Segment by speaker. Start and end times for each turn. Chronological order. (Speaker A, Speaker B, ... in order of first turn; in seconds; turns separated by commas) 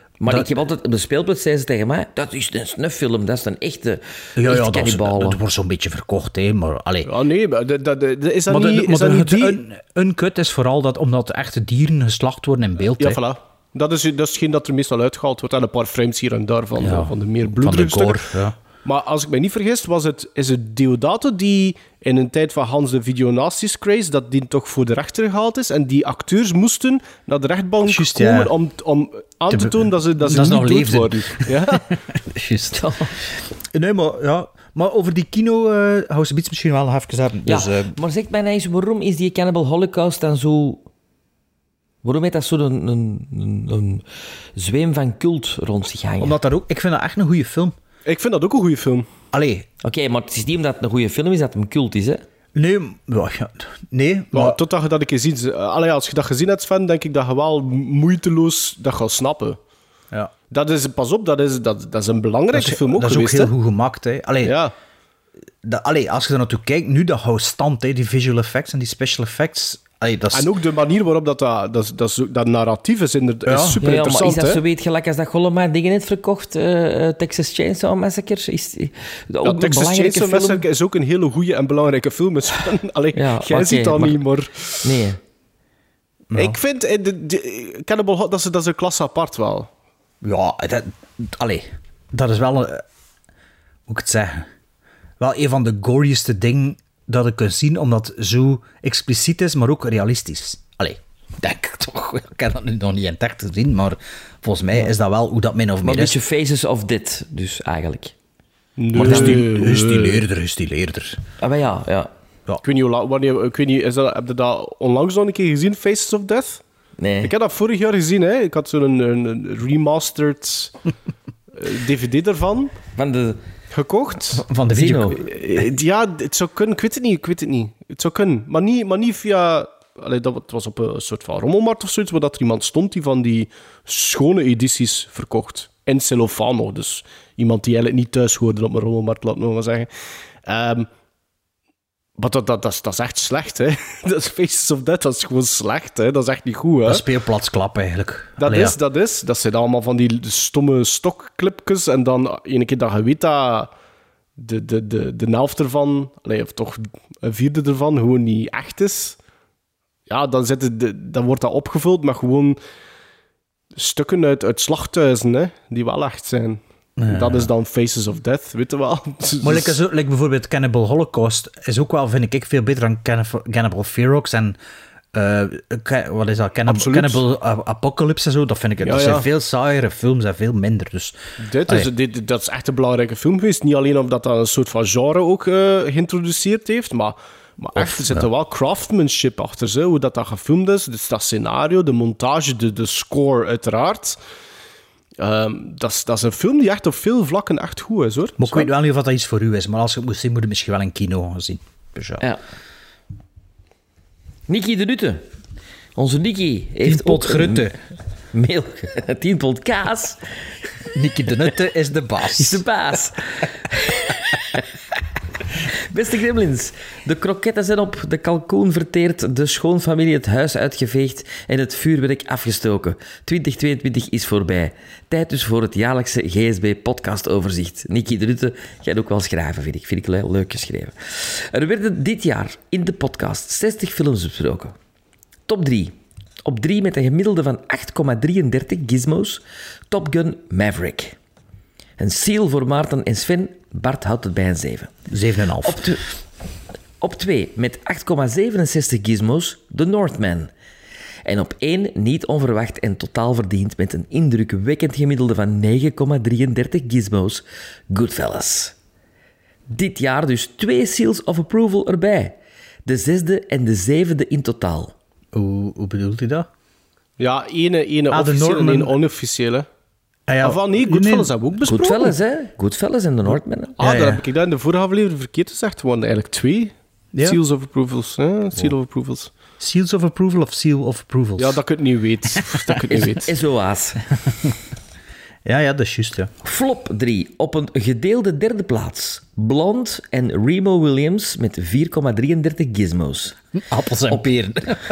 Speaker A: 0.2-5.4, Speaker B: 0.2-0.5, Speaker B: 4.4-7.1, Speaker C: 7.1-9.6, Speaker B: 8.5-13.2, Speaker C: 13.0-18.2, Speaker B: 16.8-18.6, Speaker C: 18.9-31.8, Speaker B: 27.8-28.5, Speaker B: 29.5-32.8, Speaker A: 32.7-33.1, Speaker B: 33.7-38.0, Speaker A: 37.5-40.8, Speaker A: 42.0-44.0, Speaker A: 44.6-46.4, Speaker B: 46.2-47.8, Speaker C: 48.1-49.1, Speaker B: 49.3-49.7, Speaker A: 49.8-52.2, Speaker B: 52.5-54.6, Speaker C: 54.3-59.6, Speaker C: 60.5-63.5, Speaker B: 62.5-64.6, Speaker C: 64.4-64.7, Speaker B: 65.6-70.5, Speaker C: 70.3-74.6, Speaker B: 73.5-73.8, Speaker A: 73.8-80.6, Speaker C: 79.4-84.8, Speaker A: 83.2-84.2, Speaker A: 84.8-85.2, Speaker B: 86.3-86.6, Speaker C: 86.3-89.7, Speaker B: 90.2-92.8, Speaker B: 93.9-94.5, Speaker B: 95.2-106.2, Speaker A: 105.8-108.1, Speaker C: 108.8-110.2, Speaker B: 109.0-111.2, Speaker A: 109.0-109.5, Speaker A: 111.4-112.1, Speaker C: 112.6-116.6, Speaker A: 117.0-117.3, Speaker C: 117.2-120.7, Speaker C: 121.5-122.7, Speaker A: 123.0-123.4, Speaker C: 123.7-124.5, Speaker B: 124.5-125.2, Speaker A: 124.7-125.2, Speaker C: 125.2-139.9, Speaker C: 140.5-140.9, Speaker C: 142.2-147.0, Speaker B: 146.9-148.8, Speaker C: 148.4-153.7, Speaker C: 154.4-159.2, Speaker C: 160.1-162.6, Speaker C: 163.8-169.8, Speaker B: 167.0-167.5, Speaker B: 169.4-174.6, Speaker B: 175.1-181.2, Speaker C: 176.7-177.2, Speaker C: 178.8-179.3, Speaker C: 181.4-194.2, Speaker B: 187.8-188.3, Speaker C: 195.2-198.7, Speaker B: 198.4-202.2, Speaker A: 204.5-205.2, Speaker A: 206.0-207.7, Speaker B: 206.8-207.8, Speaker A: 208.3-210.2, Speaker B: 210.9-212.6, Speaker A: 212.4-214.6, Speaker A: 215.7-234.8, Speaker A: 235.5-241.2, Speaker A: 242.0-244.9, Speaker B: 245.1-246.0, Speaker A: 245.6-246.1, Speaker A: 247.0-250.5, Speaker A: 251.2-258.7, Speaker A: 259.7-264.9, Speaker B: 265.3-266.5, Speaker C: 267.2-269.7, Speaker B: 268.1-268.9, Speaker B: 270.3-271.9, Speaker C: 270.4-272.1, Speaker A: 271.7-273.8, Speaker C: 273.8-279.3, Speaker B: 273.8-274.2, Speaker B: 279.6-281.6, Speaker C: 281.4-283.2, Speaker B: 282.8-283.1, Speaker A: 283.2-284.0, Speaker B: 285.5-286.3, Speaker A: 286.4-293.4, Speaker B: 293.5-294.8